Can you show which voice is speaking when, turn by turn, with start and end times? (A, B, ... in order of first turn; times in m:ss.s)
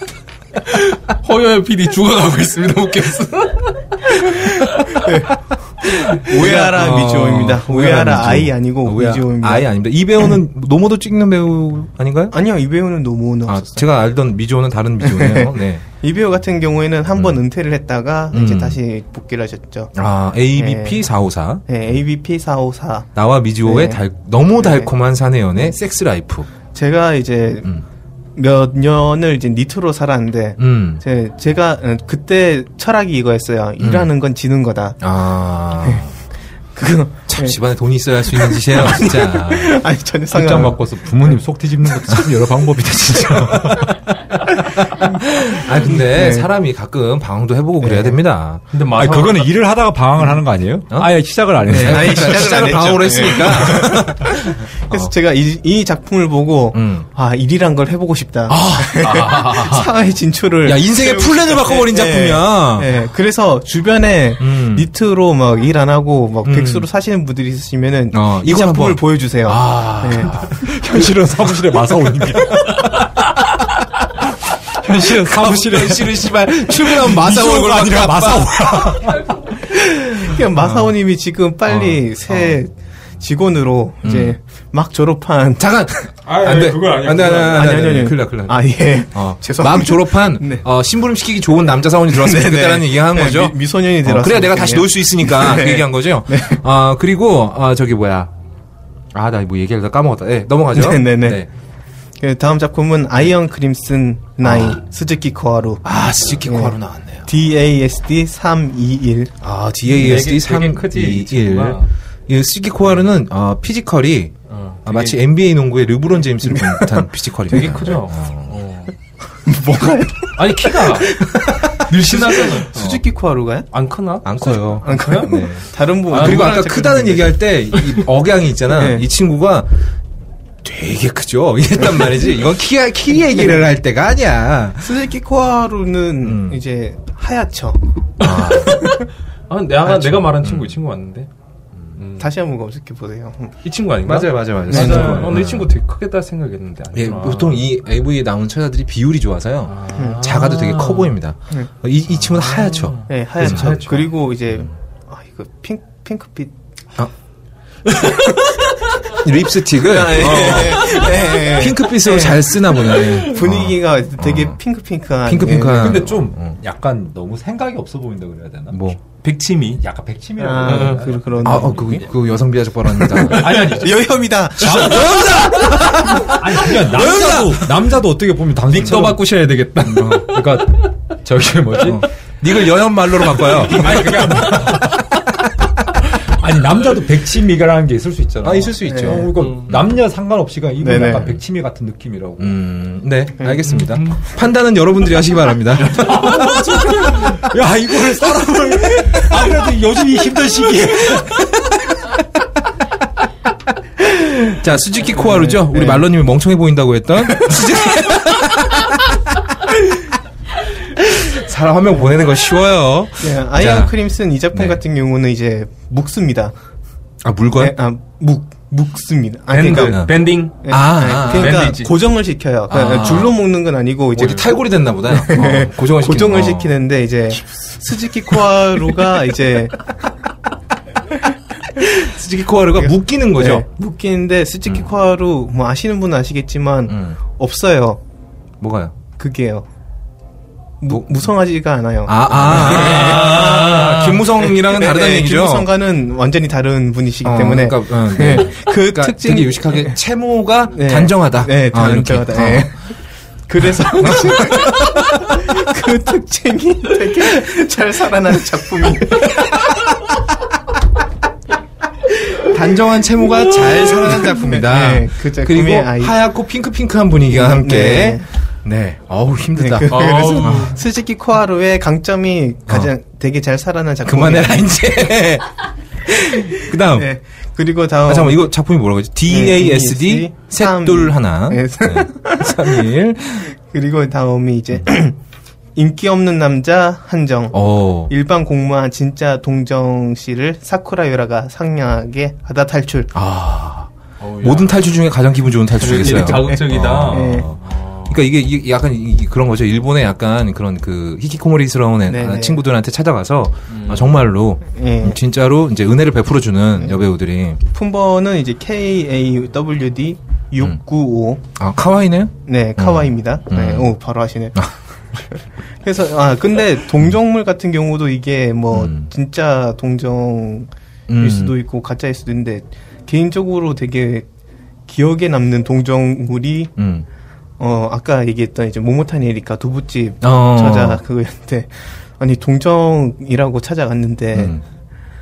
0:00.7-0:05.0 A
0:04.9-0:05.3 B
0:06.1-0:09.7 B
0:06.3-0:07.0 A
0:06.4-0:12.3 C
0:12.3-0:13.8 B
0:13.5-0:15.8 C
0:15.0-0:19.9 B
0:18.3-0:18.8 C
0:19.9-0:21.6 C
0:20.6-0:21.0 B
0:21.7-0:24.0 B
0:23.1-0:26.5 C
0:24.6-0:24.9 B
0:26.7-0:27.7 B
0:28.4-0:35.0 B
0:30.6-0:31.0 C
0:33.8-0:34.1 C
0:35.0-0:36.1 C
0:36.7-0:37.6 B
0:37.3-0:39.8 C
0:38.3-0:41.4 B
0:40.3-0:44.0 D
0:43.3-0:43.9 C
0:44.9-0:48.6 C
0:45.9-0:46.5 B
0:47.8-0:48.2 B
0:48.7-0:49.5 A
0:48.9-0:52.6 D
0:50.9-0:55.1 C
0:51.7-1:10.5 B
0:56.7-0:57.1 C
0:58.5-0:59.9 C
1:00.6-1:02.9 C
1:04.4-1:04.9 C
1:06.4-1:06.8 C
1:08.1-1:10.7 C
1:10.5-1:13.8 D
1:12.4-1:12.9 C
1:14.7-1:19.5 D
1:14.8-1:19.2 C
1:20.2-1:25.8 B
1:20.2-1:20.9 C
1:21.7-1:22.6 C
1:24.0-1:24.4 C
1:25.6-1:38.3 C
1:26.2-1:27.7 A
1:26.4-1:27.3 D
1:27.5-1:30.6 B
1:32.1-1:36.6 B
1:39.1-1:41.5 C
1:40.7-1:41.4 B
1:42.2-1:45.8 B
1:44.4-1:44.8 C
1:45.8-1:47.3 C
1:46.4-1:46.8 B
1:47.3-1:49.3 B
1:49.4-1:54.3 C
1:49.9-1:51.9 A
1:54.5-1:55.2 A
1:54.8-1:58.5 C
1:56.5-1:57.0 B
1:57.5-1:58.9 A
1:59.4-2:01.4 B
2:00.3-2:01.2 A
2:01.5-2:01.8 C
2:01.8-2:03.0 A
2:02.5-2:03.7 B
2:03.7-2:05.5 A
2:04.2-2:09.7 C
2:04.8-2:07.3 B
2:06.1-2:07.2 A
2:08.7-2:09.0 B
2:10.6-2:14.9 C
2:14.8-2:17.8 B
2:16.2-2:16.6 C
2:18.2-2:18.9 C
2:18.5-2:21.3 A
2:18.8-2:19.0 B
2:20.2-2:20.8 C
2:22.0-2:22.3 A
2:22.2-2:23.5 B
2:23.6-2:27.7 A
2:24.0-2:25.7 C
2:24.7-2:25.4 B
2:26.9-2:34.0 C
2:29.7-2:31.1 A
2:29.9-2:30.2 B
2:32.1-2:34.1 A
2:33.1-2:36.5 B
2:39.1-2:44.6 C
2:39.8-2:46.1 B
2:40.4-2:41.2 A
2:45.2-2:46.6 C
2:45.7-2:49.0 D
2:48.7-2:49.0 C
2:49.2-2:49.8 A
2:49.7-2:52.1 D
2:50.4-2:52.0 B
2:50.6-2:51.1 A
2:51.4-2:53.7 C
2:53.1-2:55.1 B
2:53.3-2:54.2 A
2:54.6-2:59.3 D
2:54.6-2:57.6 C
2:58.7-3:00.6 A
2:59.8-3:02.0 D
3:00.0-3:00.2 C
3:01.8-3:04.4 C
3:03.5-3:05.1 D
3:03.8-3:04.6 A
3:06.0-3:12.5 D
3:08.4-3:09.3 C
3:08.8-3:09.2 B
3:09.4-3:09.7 A
3:10.8-3:11.3 B
3:12.4-3:16.6 C
3:13.4-3:13.7 B
3:13.8-3:14.2 A
3:15.8-3:21.6 D
3:16.0-3:17.2 A
3:24.4-3:29.1 C
3:25.1-3:26.0 B
3:30.9-3:33.9 C
3:33.2-3:36.5 B
3:34.5-3:34.8 C
3:37.2-3:37.7 C
3:37.6-3:49.9 B
3:39.5-3:41.9 A
3:39.8-3:41.8 C
3:42.7-3:43.4 C
3:44.1-3:46.7 C
3:51.8-3:53.6 C
3:52.8-3:58.0 B
3:56.9-3:57.2 C
3:58.6-3:58.9 C
3:59.2-3:59.7 B
4:00.8-4:10.0 B
4:00.9-4:01.3 C
4:02.0-4:05.7 C
4:02.8-4:03.7 A
4:07.2-4:12.7 C
4:10.7-4:12.9 B
4:13.5-4:19.7 B
4:13.7-4:15.5 C
4:22.4-4:30.7 C
4:23.6-4:26.2 B
4:27.3-4:28.2 B
4:29.6-4:34.6 B
4:29.9-4:30.8 A
4:34.0-4:35.5 C
4:36.1-4:37.1 C
4:36.9-4:38.5 B
4:38.1-4:43.5 C
4:39.3-4:42.9 B
4:43.5-4:45.2 B
4:45.7-4:53.1 B
4:47.5-4:48.1 C
4:53.1-5:07.6 C
4:54.2-4:54.8 A
4:55.8-4:58.2 A
4:56.2-4:57.4 B
5:02.1-5:02.6 B
5:03.7-5:04.2 A
5:04.7-5:05.2 B
5:07.7-5:11.4 B
5:11.5-5:13.9 C
5:12.4-5:14.7 B
5:15.8-5:24.3 B
5:18.7-5:19.1 C
5:21.1-5:21.5 C
5:24.9-5:26.7 B
5:26.8-5:27.0 C
5:27.6-5:34.6 B
5:30.2-5:31.0 C
5:34.3-5:34.6 C